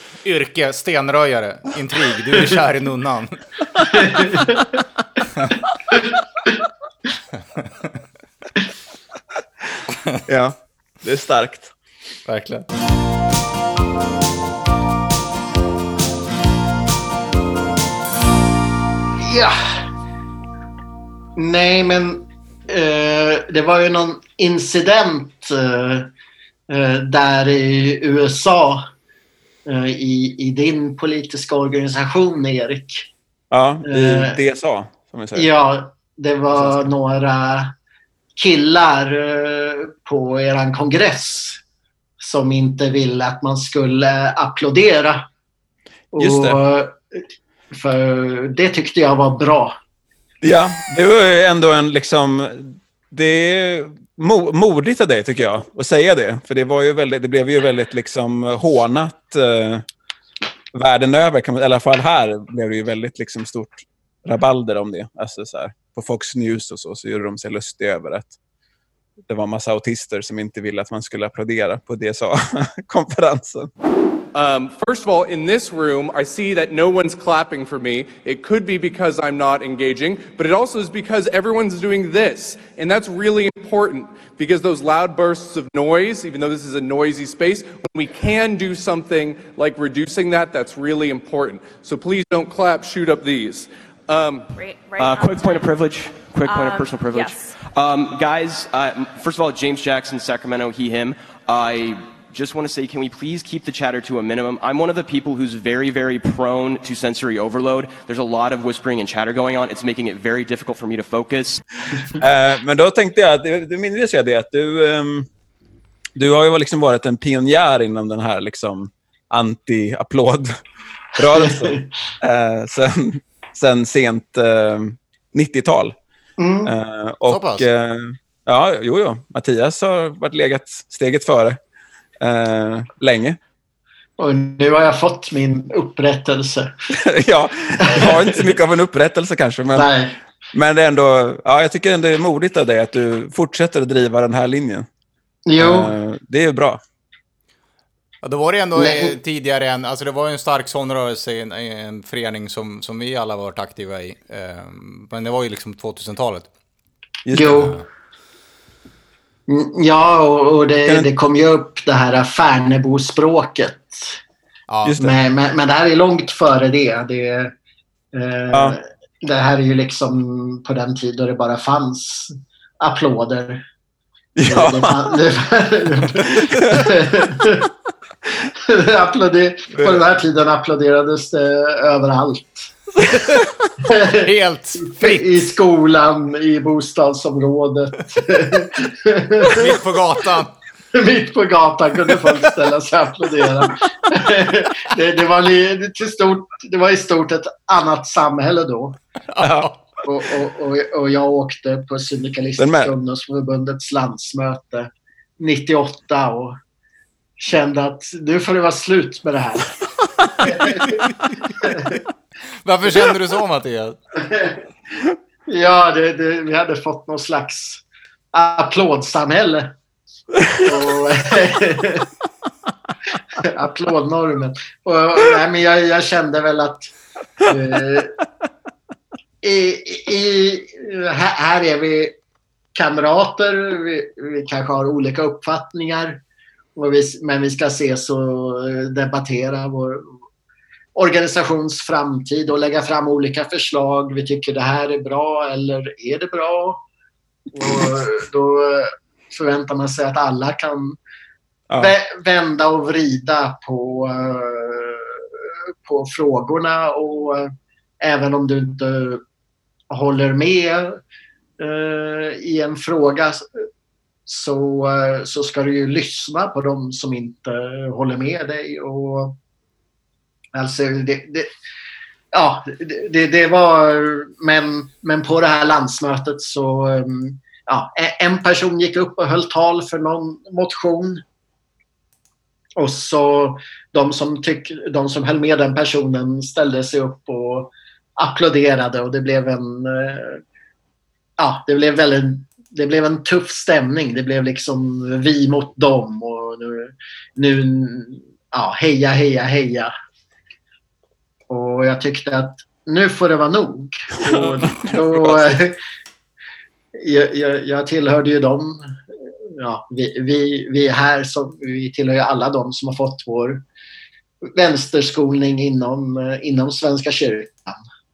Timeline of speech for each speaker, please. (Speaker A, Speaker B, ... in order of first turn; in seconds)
Speaker A: 0.2-3.4, 12.2-12.7, 127.3-127.7, 148.2-156.5, 164.7-165.1, 183.1-183.4, 184.0-185.5, 189.5-190.5, 199.3-199.8, 212.6-214.0
Speaker B: 4.1-4.4, 19.2-19.5, 21.4-26.1, 26.7-28.9, 29.6-33.1, 33.8-34.4, 35.3-37.7, 38.4-41.6, 42.2-45.3, 46.1-49.8, 121.4-121.8, 126.4-126.7, 134.2-136.7, 137.8-138.4, 139.7-140.2, 145.5-145.9, 148.7-149.1, 157.3-157.8, 159.5-164.2, 165.0-167.5, 168.1-173.7, 174.5-177.7, 178.6-182.7, 183.8-184.3, 184.8-189.7, 190.9-199.0, 200.0-206.6, 207.4-209.7, 210.4-211.0, 211.6-211.9, 215.5-219.7, 220.6-222.1, 223.4-226.9, 227.4-228.2, 229.4-232.2, 232.7-236.2, 236.7-240.2, 240.9-246.8, 247.5-251.0, 251.8-259.2, 259.9-261.0, 261.6-263.5, 264.2-269.4, 270.5-271.5, 272.3-281.2, 282.8-290.4, 291.4-299.9, 301.5-305.8, 306.9-313.6, 314.4-317.8
Speaker C: 10.3-11.7, 33.5-35.5, 46.1-46.6, 50.4-59.8, 60.7-68.3, 69.3-73.7, 112.2-115.3, 116.2-120.5, 121.2-125.9, 126.6-131.6, 132.2-133.4, 137.0-139.9, 140.5-144.9, 145.6-146.8, 157.2-157.7, 174.3-175.2, 176.2-176.8, 179.7-180.0, 202.6-202.9, 304.2-305.6
Speaker D: 74.3-94.5
Speaker E: 94.5-95.7, 96.4-97.5
Speaker F: 95.0-111.6